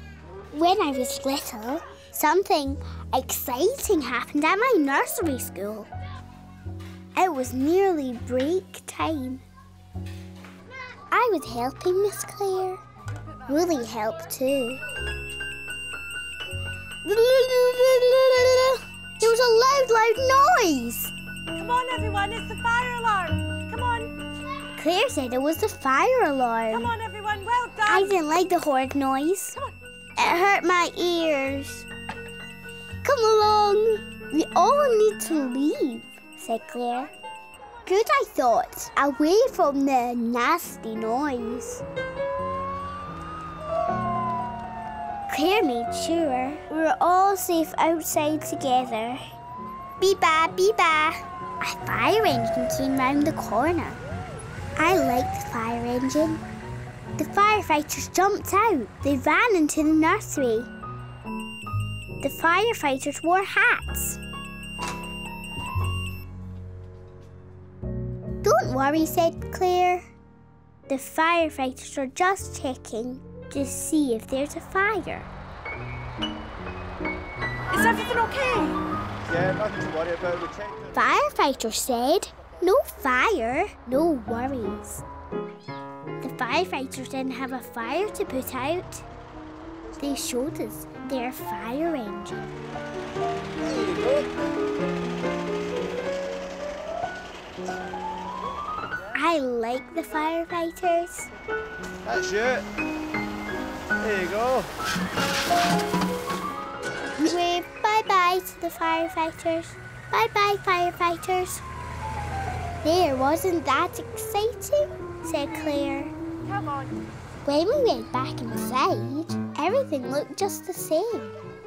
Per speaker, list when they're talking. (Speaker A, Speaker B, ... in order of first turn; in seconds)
Speaker A: 0.5-5.9, 7.1-9.4, 11.1-12.8, 13.5-14.8, 17.0-21.1, 24.8-26.9, 27.8-29.6, 30.1-31.9, 33.0-37.1, 37.9-41.8, 45.3-49.2, 50.0-54.0, 54.8-56.4, 57.2-60.7, 62.2-64.2, 68.4-70.1, 70.9-75.3, 80.9-85.0, 86.2-89.1, 90.0-92.5, 99.1-101.3, 107.2-111.6, 112.8-116.1, 117.5-121.3
Speaker B: 21.6-24.0, 27.0-27.7, 78.0-78.7
Speaker C: 79.3-80.8, 93.7-94.3, 102.1-102.7, 104.0-104.7, 116.5-116.9